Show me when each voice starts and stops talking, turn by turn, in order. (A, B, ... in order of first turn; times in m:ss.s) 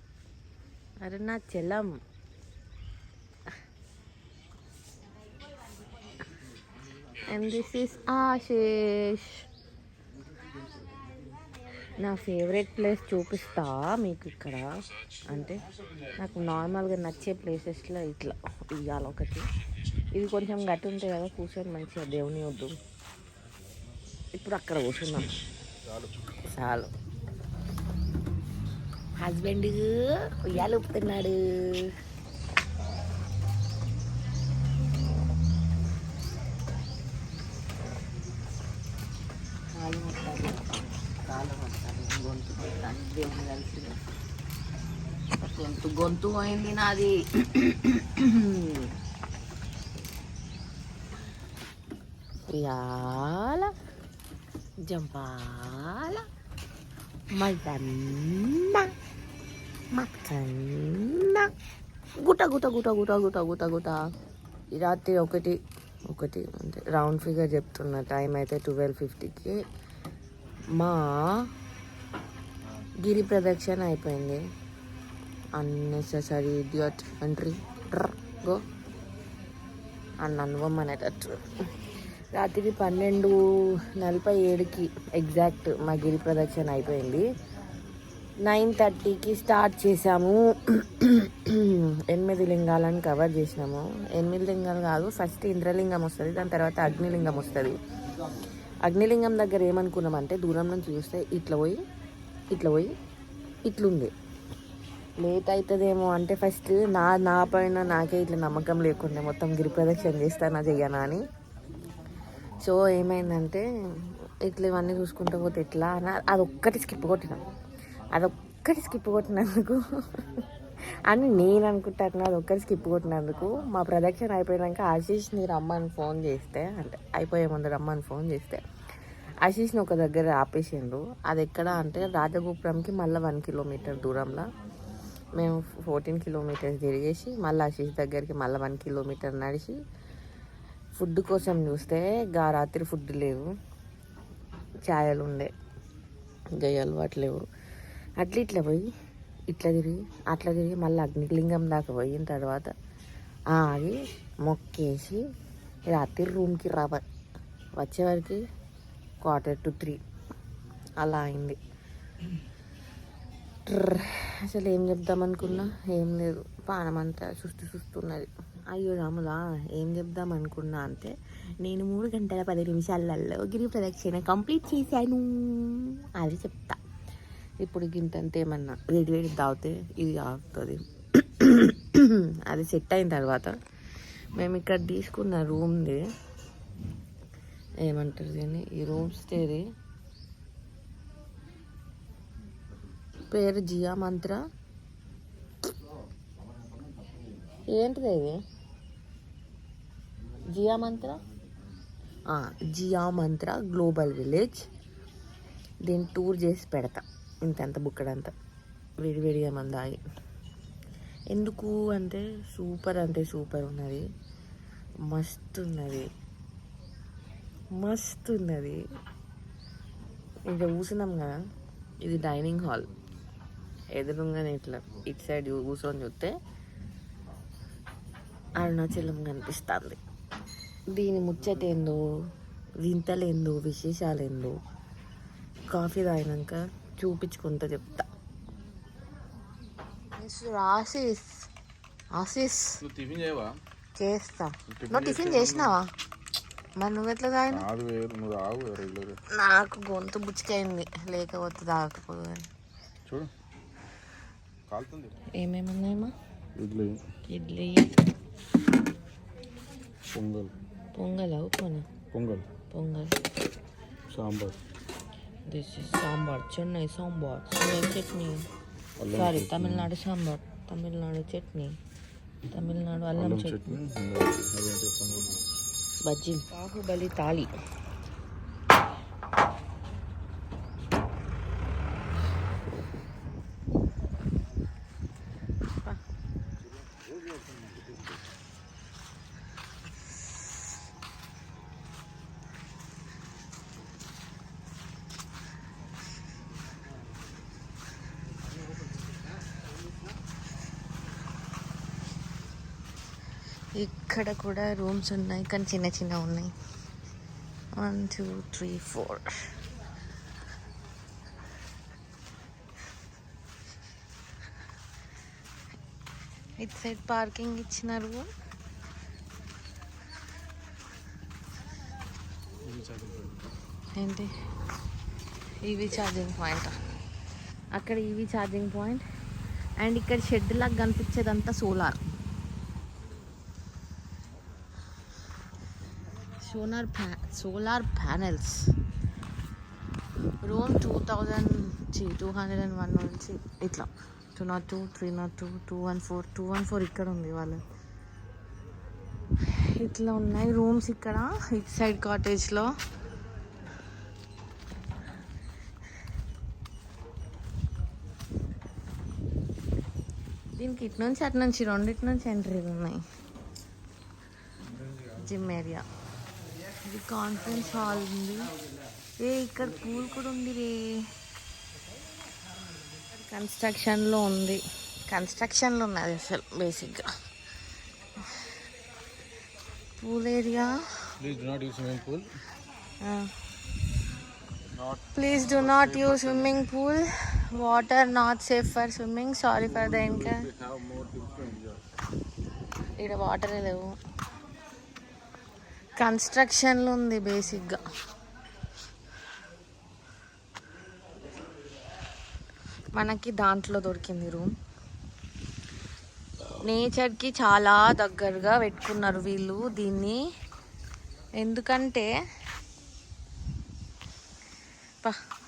0:01.0-0:01.9 A
0:07.3-0:09.4 A
0:12.0-0:14.6 A
0:15.3-0:15.6 A
0:16.2-0:19.4 A
0:20.1-0:22.7 A
0:24.4-0:25.3 A
0:26.4-0:26.9 A
0:29.2-0:31.9 A
0:39.7-0:44.0 A
0:45.4-0:48.9 A
0:52.5-0:53.7 A
0:54.9-0:56.2 A
0:57.4-0:58.9 A
0:59.9-1:01.5 A
1:02.2-1:04.0 A
1:04.7-1:05.6 A
1:06.1-1:09.6 A
1:10.7-1:11.4 A
1:13.0-1:14.4 A
1:15.6-1:18.6 A
1:20.2-1:21.4 A
1:22.3-1:27.2 A
1:28.4-1:37.8 A
1:38.8-1:41.8 A
1:42.5-1:42.9 A
1:43.6-1:44.1 A
1:45.2-1:51.2 A
1:52.6-1:57.4 A
1:58.1-2:00.4 A
2:01.0-2:08.6 A
2:09.4-2:14.5 A
2:15.4-2:19.8 A
2:20.9-2:23.5 A
2:24.9-2:25.5 A
2:26.6-2:27.4 A
2:28.2-2:28.9 A
2:29.5-2:32.7 A
2:33.5-2:35.2 A
2:35.9-2:37.0 A
2:37.8-2:38.4 A
2:39.2-2:40.0 A
2:41.0-2:41.6 A
2:43.6-2:56.8 A
2:57.6-3:03.5 A
3:04.3-3:06.0 A
3:07.8-3:09.6 A
3:13.3-3:14.4 A
3:17.7-3:18.4 A
3:20.5-3:21.2 A
3:22.3-3:24.6 A
3:25.8-3:28.3 A
3:29.0-3:30.0 A
3:31.3-3:34.0 A
3:35.1-3:36.1 A
3:37.8-3:38.8 A
3:40.5-3:41.3 A
3:42.0-3:42.9 A
3:43.9-3:46.3 A
3:48.6-3:50.0 A
3:50.9-3:52.0 A
3:52.8-3:54.6 A
3:55.7-3:58.0 A
4:00.2-4:01.4 A
4:02.1-4:02.7 A
4:02.8-4:03.6 B
4:04.0-4:05.9 A
4:04.7-4:05.7 B
4:06.8-4:07.6 A
4:07.5-4:09.2 B
4:09.3-4:12.4 A
4:14.7-4:15.2 B
4:15.4-4:16.1 A
4:16.6-4:17.0 B
4:17.3-4:17.9 A
4:20.1-4:20.5 B
4:21.0-4:21.9 A
4:22.1-4:22.5 B
4:22.7-4:23.1 A
4:24.1-4:24.6 B
4:25.5-4:28.4 A
4:29.0-4:29.9 B
4:29.1-4:31.8 A
4:32.5-4:33.8 A
4:33.2-4:35.4 B
4:36.0-4:37.5 A
5:03.8-5:06.5 A
5:07.8-5:09.5 A
5:16.6-5:18.3 A
5:22.7-5:23.3 B
5:23.9-5:24.3 A
5:25.6-5:26.8 A
5:27.7-5:29.0 A
5:29.8-5:32.0 A
5:36.4-5:38.7 A
5:40.4-5:47.6 A
5:49.5-5:52.7 A
6:00.6-6:03.0 A
6:05.1-6:05.8 A
6:06.8-6:08.5 A
6:09.2-6:11.0 A
6:13.1-6:17.1 A
6:20.0-6:21.1 A
6:21.2-6:22.3 B
6:23.0-6:23.3 A
6:24.8-6:26.6 B
6:25.1-6:30.5 A
6:29.6-6:31.8 B
6:33.0-6:33.9 A
6:36.0-6:37.9 A
6:42.9-6:44.5 A
6:46.6-6:50.2 A
6:51.4-6:52.1 A